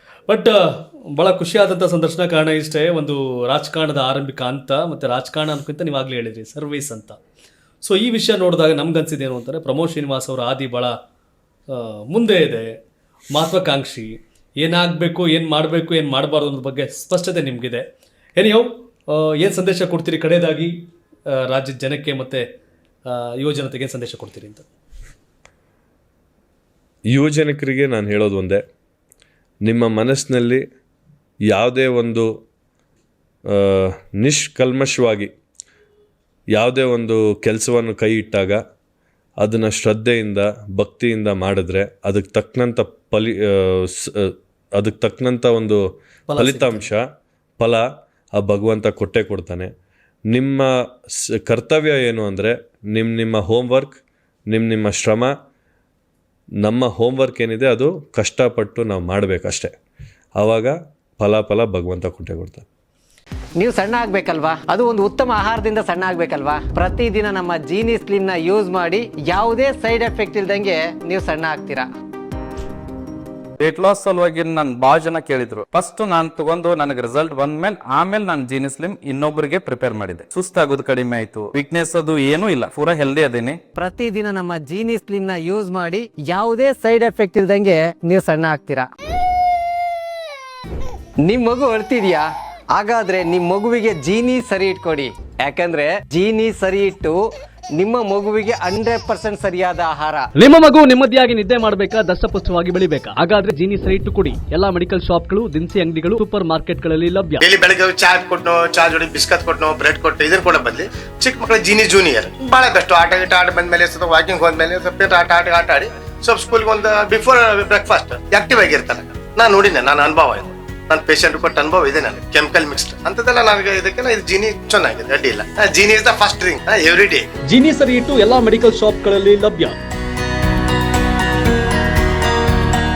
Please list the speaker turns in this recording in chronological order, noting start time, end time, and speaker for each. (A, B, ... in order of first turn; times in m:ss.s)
0:00.3-0:07.2 A
0:07.8-0:10.9 A
0:11.7-0:12.8 A
0:13.3-0:17.8 A
0:18.4-0:20.7 A
0:21.3-0:22.4 A
0:23.1-0:24.7 A
0:27.1-0:28.6 B
0:29.6-0:30.6 B
0:31.5-0:32.3 B
0:33.5-0:35.3 B
0:36.5-0:38.6 B
0:39.4-0:45.8 B
0:46.3-0:46.9 A
0:46.4-0:47.0 B
0:47.6-0:49.7 B
0:50.3-0:55.3 B
0:56.6-0:59.7 B
1:00.4-1:02.6 B
1:03.6-1:11.9 C
1:13.6-1:23.6 D
1:23.8-1:28.9 C
1:31.2-1:37.2 C
1:37.8-1:40.3 C
1:40.4-1:47.4 E
1:47.4-2:07.3 F
2:07.5-2:09.8 E